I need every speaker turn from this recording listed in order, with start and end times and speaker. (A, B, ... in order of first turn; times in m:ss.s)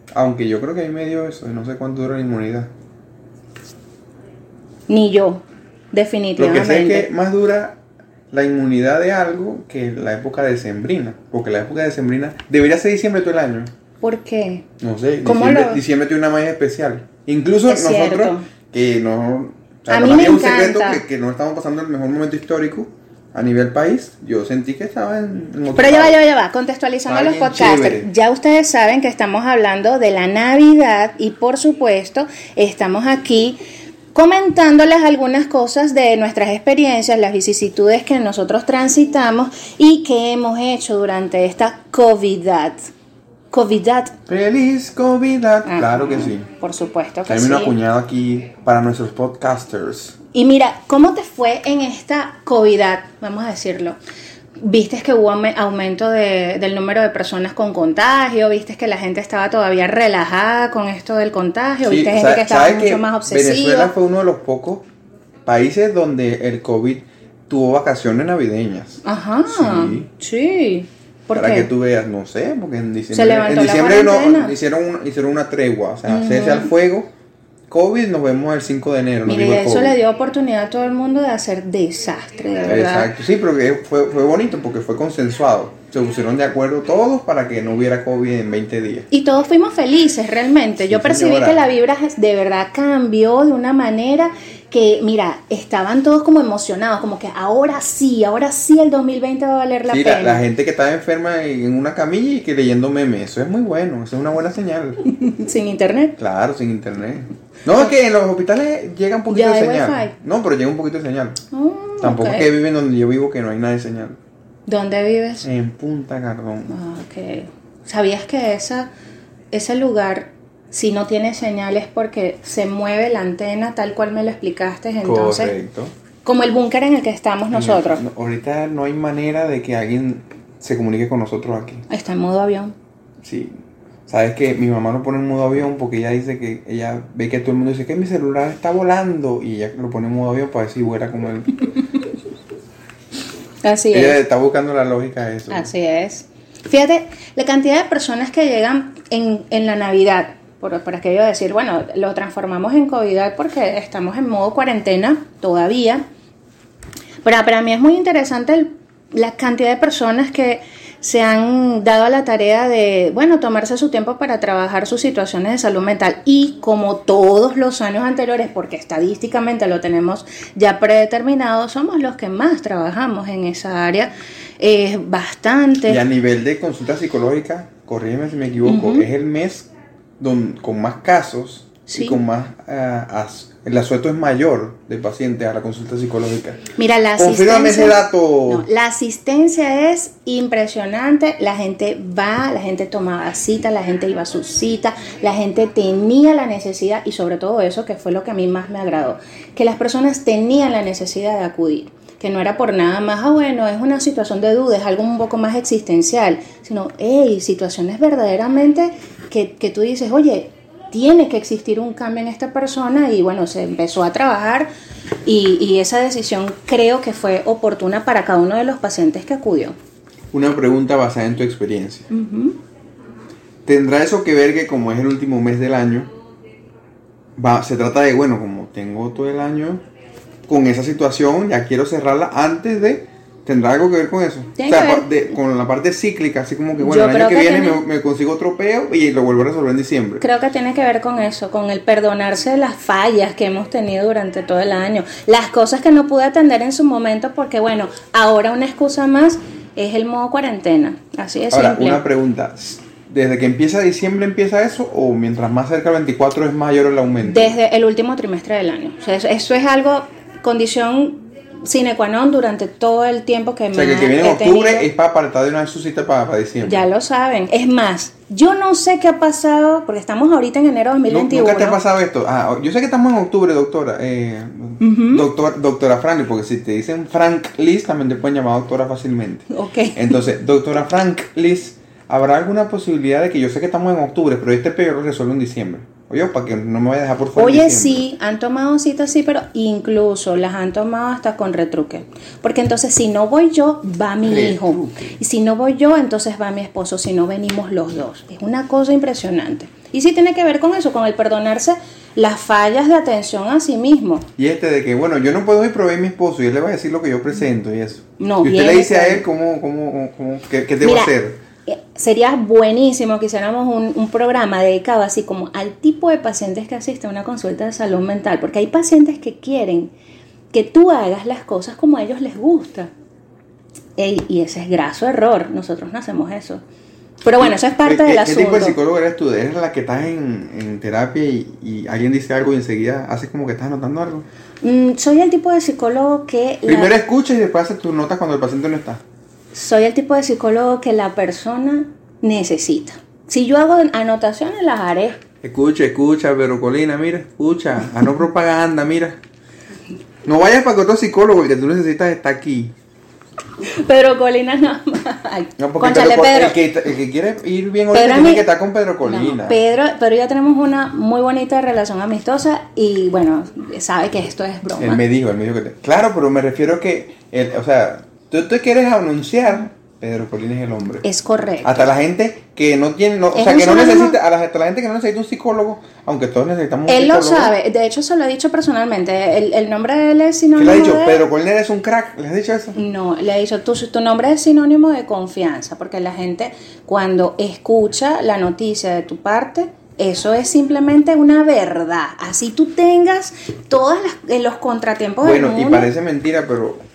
0:00.1-0:02.7 A
0:04.9-0:07.1 B
0:06.4-0:07.8 A
0:08.3-0:13.7 A
0:14.0-0:14.6 B
0:14.8-0:26.2 A
0:15.2-0:15.8 B
0:17.7-0:18.4 B
0:19.9-0:21.0 B
0:25.8-0:33.6 B
0:27.0-0:28.1 A
0:34.1-0:42.8 B
0:43.5-0:44.1 B
0:44.3-0:46.4 A
0:45.6-0:47.8 B
0:47.3-0:50.1 A
0:50.3-0:54.0 B
0:54.6-1:03.9 B
1:01.8-1:04.8 A
1:05.4-1:10.1 A
1:09.0-1:11.7 B
1:11.3-1:17.1 A
1:13.1-1:14.6 B
1:16.1-1:16.7 B
1:17.7-1:20.0 A
1:19.2-1:23.1 B
1:22.6-1:29.1 A
1:29.1-1:40.4 B
1:30.8-1:31.7 A
1:39.9-1:45.0 A
1:45.2-1:46.2 B
1:46.2-1:51.4 A
1:49.3-1:50.1 B
1:51.5-1:52.5 B
1:52.0-1:54.2 A
1:54.7-1:55.4 B
1:55.4-1:56.7 A
1:56.7-1:58.9 B
1:59.5-2:05.5 B
2:05.0-2:05.9 A
2:06.2-2:08.0 B
2:07.5-2:11.8 A
2:11.9-2:12.8 B
2:13.2-2:13.5 A
2:14.1-2:21.7 A
2:23.6-2:24.2 B
2:23.9-2:25.7 A
2:25.5-2:36.0 B
2:37.2-2:56.0 B
2:55.9-2:59.7 A
2:58.6-2:59.1 B
3:00.2-3:06.6 A
3:01.9-3:02.2 B
3:06.8-3:34.7 B
3:07.2-3:08.7 A
3:35.2-3:39.8 B
3:40.3-3:42.1 A
3:42.1-3:42.6 B
3:43.6-3:46.1 A
3:47.4-3:49.8 A
3:50.5-4:00.2 A
3:54.6-3:55.1 B
3:56.8-3:57.8 B
4:00.2-4:12.0 B
4:11.5-4:17.5 A
4:17.2-4:24.9 B
4:23.7-4:26.9 A
4:26.6-4:31.8 B
4:31.1-4:48.0 A
4:34.8-4:35.2 B
4:39.5-4:40.1 B
4:47.4-5:04.3 B
4:54.2-4:55.2 A
5:04.4-5:11.4 A
5:08.2-5:09.2 B
5:10.8-5:11.1 B
5:11.7-5:19.9 B
5:20.5-5:22.9 B
5:24.0-5:26.6 B
5:27.2-5:28.8 B
5:27.4-5:34.2 A
5:34.6-5:36.9 B
5:36.6-5:39.0 A
5:39.5-5:45.2 B
5:45.4-5:49.2 A
5:50.2-5:52.7 A
5:53.7-5:56.6 B
5:55.6-5:59.6 A
5:57.9-5:58.5 B
5:59.0-6:05.0 B
6:04.8-6:11.0 A
6:11.0-6:11.9 B
6:11.6-6:17.5 A
6:13.3-6:14.2 B
6:16.9-6:21.2 B
6:20.6-6:22.8 A
6:22.8-6:35.9 B
6:35.2-6:36.8 A